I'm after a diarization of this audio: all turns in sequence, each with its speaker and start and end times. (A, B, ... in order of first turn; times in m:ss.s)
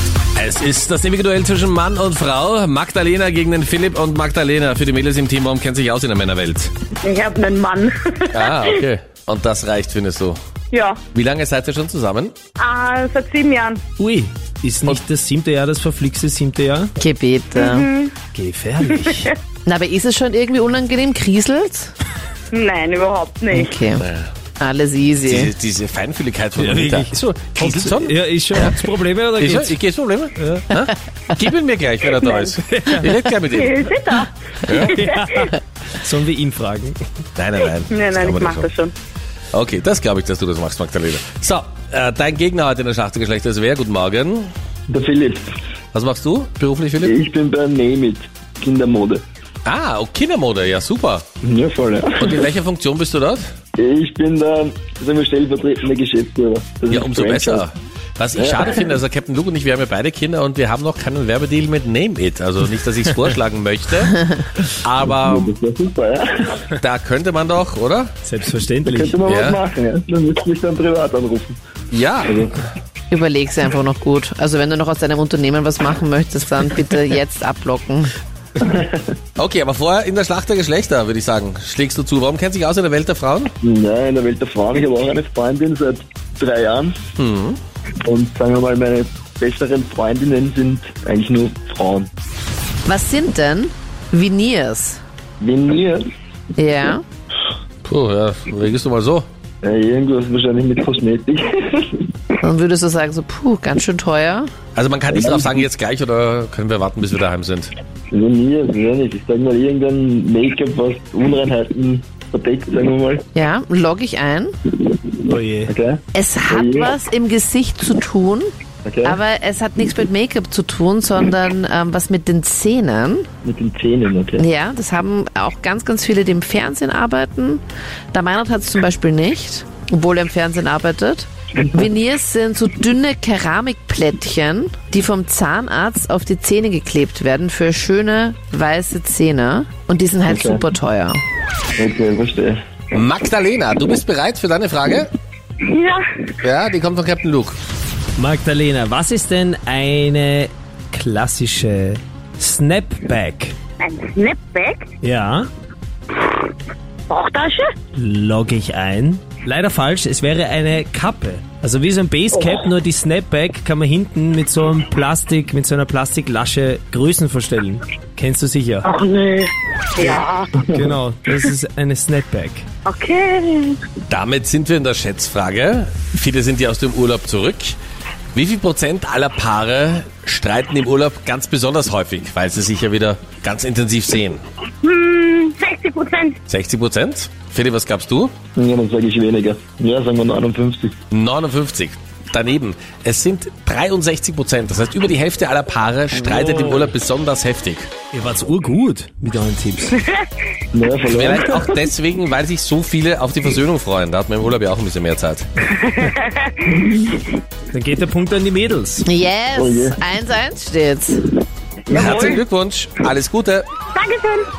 0:00.4-0:06.7 A
0:07.0-0:08.8 B
0:08.3-0:10.4 A
0:10.7-0:11.0 B
0:11.1-0:12.3 A
0:12.6-0:13.8 B
0:14.0-0:16.9 C
0:17.0-0:17.9 D
0:17.5-0:18.1 B
0:18.3-0:19.3 C
0:19.6-0:21.9 D
0:22.5-0:23.7 B
0:23.5-0:24.0 D
0:24.0-0:24.3 A
0:24.6-0:25.5 D
0:25.2-0:28.6 A
0:26.6-0:29.8 C
0:29.4-0:33.8 A
0:30.4-0:30.7 C
0:32.0-0:32.6 B
0:32.7-0:33.3 C
0:33.5-0:35.5 B
0:34.9-0:37.0 C
0:37.4-0:38.7 A
0:37.6-0:38.9 B
0:39.5-0:44.5 A
0:44.9-0:45.4 E
0:45.9-0:47.1 A
0:47.0-0:49.2 E
0:49.6-0:51.2 A
0:51.4-0:52.5 E
0:52.2-0:53.4 A
0:53.8-0:57.6 E
0:56.9-1:04.2 A
0:58.4-0:58.9 E
1:04.8-1:05.5 A
1:05.0-1:06.6 E
1:06.8-1:08.1 A
1:08.2-1:09.2 C
1:08.8-1:11.6 E
1:09.2-1:09.6 A
1:11.9-1:12.4 A
1:12.3-1:12.6 E
1:13.1-1:18.1 D
1:18.6-1:19.1 E
1:19.4-1:23.5 A
1:23.6-1:27.0 E
1:27.2-1:27.6 A
1:28.0-1:32.1 E
1:32.8-1:35.0 D
1:35.4-1:36.0 E
1:36.6-1:37.0 D
1:37.8-1:39.2 A
1:39.6-1:42.0 E
1:42.4-1:44.5 D
1:44.7-1:47.7 A
1:45.1-1:45.6 E
1:48.1-1:53.2 E
1:53.3-1:54.5 D
1:55.2-1:55.7 C
1:55.6-1:56.9 E
1:56.1-1:58.5 D
1:58.8-1:59.2 E
1:59.0-2:03.3 D
2:03.4-2:04.4 E
2:04.4-2:21.2 D
2:20.3-2:20.6 E
2:21.8-2:22.6 E
2:22.9-2:25.1 A
2:25.6-2:26.0 B
2:26.4-2:27.6 A
2:28.2-2:33.6 C
2:33.8-2:34.8 B
2:35.0-2:35.5 C
2:37.1-2:37.8 B
2:37.9-2:48.8 C
2:42.3-2:42.6 B
2:48.8-2:50.6 B
2:50.6-2:50.9 E
2:50.7-2:52.7 C
2:52.8-2:53.8 B
2:54.1-2:57.8 A
2:58.3-3:04.4 A
3:04.8-3:06.4 B
3:06.5-3:08.3 A
3:08.6-3:10.9 E
3:11.1-3:17.9 A
3:16.2-3:16.9 C
3:18.1-3:20.0 C
3:20.7-3:21.8 E
3:21.1-3:25.4 A
3:25.8-3:26.5 B
3:26.6-3:27.2 E
3:27.7-3:29.0 C
3:29.0-3:31.2 D
3:29.6-3:30.0 E
3:31.9-3:32.4 B
3:31.9-3:33.6 A
3:33.9-3:34.5 B